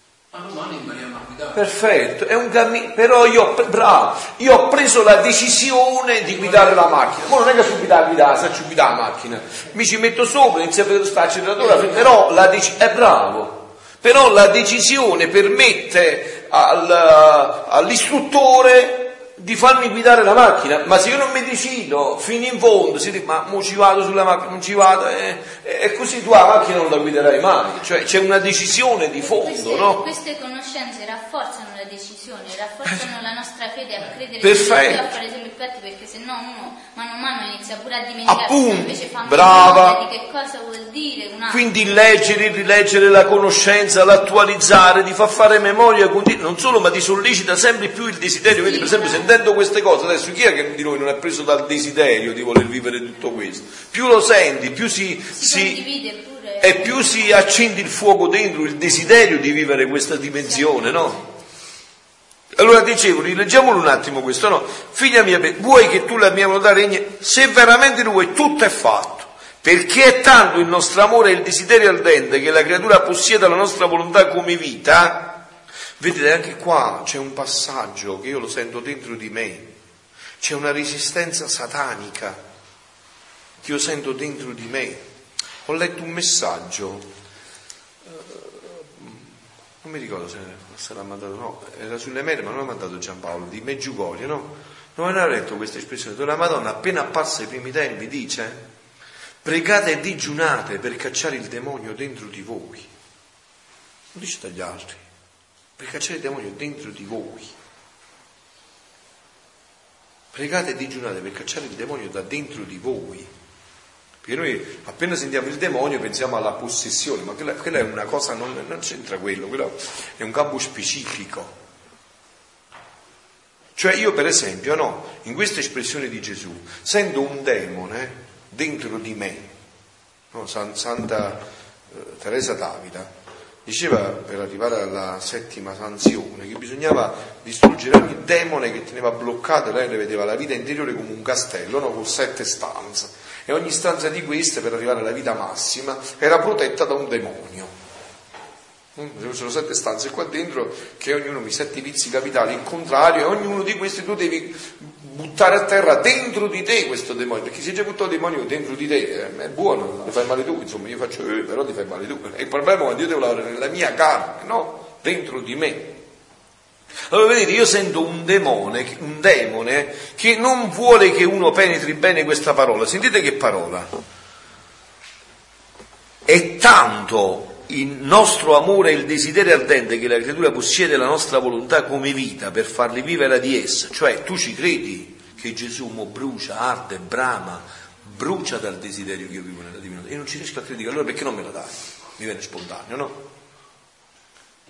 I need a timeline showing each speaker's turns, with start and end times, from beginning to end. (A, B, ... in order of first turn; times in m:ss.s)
0:00.3-0:01.6 A
0:01.5-0:30.0 B
0:06.3-0:07.2 A
0:29.2-0:41.7 C
0:34.4-0:35.1 B
0:38.2-0:40.0 B
0:41.5-0:55.8 B
0:48.6-0:49.3 C
0:55.3-0:57.3 C
0:56.6-1:01.2 B
1:00.4-1:01.2 C
1:02.5-1:15.4 B
1:16.0-1:19.7 B
1:20.4-1:22.4 B
1:23.6-1:25.0 B
1:25.6-1:27.1 B
1:28.0-1:38.6 B
1:39.4-1:42.9 B
1:44.1-1:45.0 B
1:45.8-1:47.5 B
1:50.3-1:53.3 B
1:54.2-2:01.5 B
2:03.8-2:09.5 B
2:10.3-2:13.1 B
2:13.6-2:27.7 B
2:28.9-2:46.0 B
2:47.1-2:53.9 B
2:56.2-3:13.2 B